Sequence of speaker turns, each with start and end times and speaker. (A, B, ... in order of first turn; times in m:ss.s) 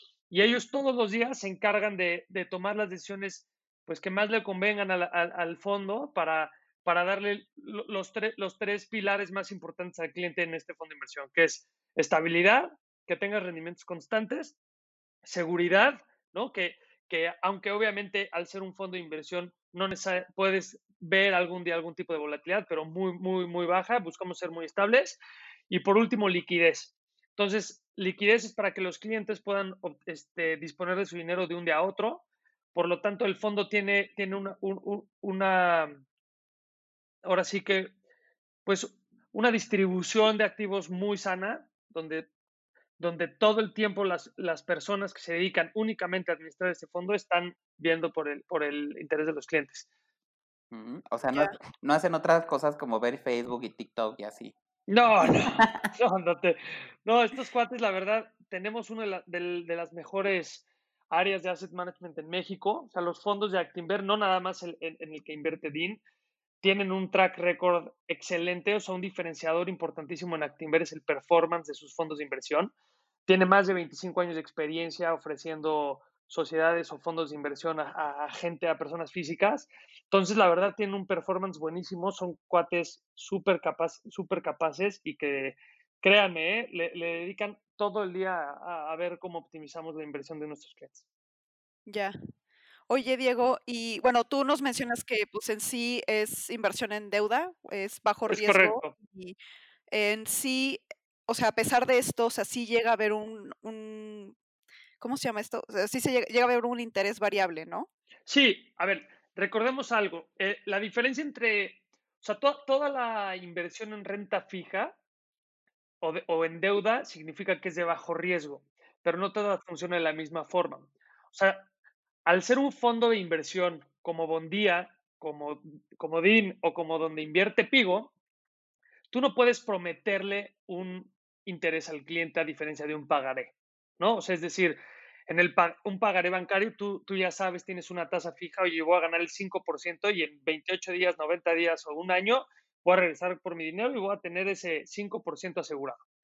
0:00.3-0:14.6 A
0:15.2-0:36.0 A
0:37.2-0:37.9 A
0:38.7-0:42.3 A
0:43.0-0:49.9 A
0:50.7-0:54.6 B
0:54.9-1:06.0 A
0:55.2-0:55.9 B
1:06.6-1:12.7 A
1:13.3-1:31.0 A
1:31.9-1:32.2 C
1:32.9-1:39.4 C
1:38.3-1:38.9 A
1:39.9-1:44.4 C
1:45.0-1:47.9 C
1:48.3-1:55.0 A
1:56.0-2:01.7 A
2:02.3-2:08.1 A
2:09.1-2:26.0 A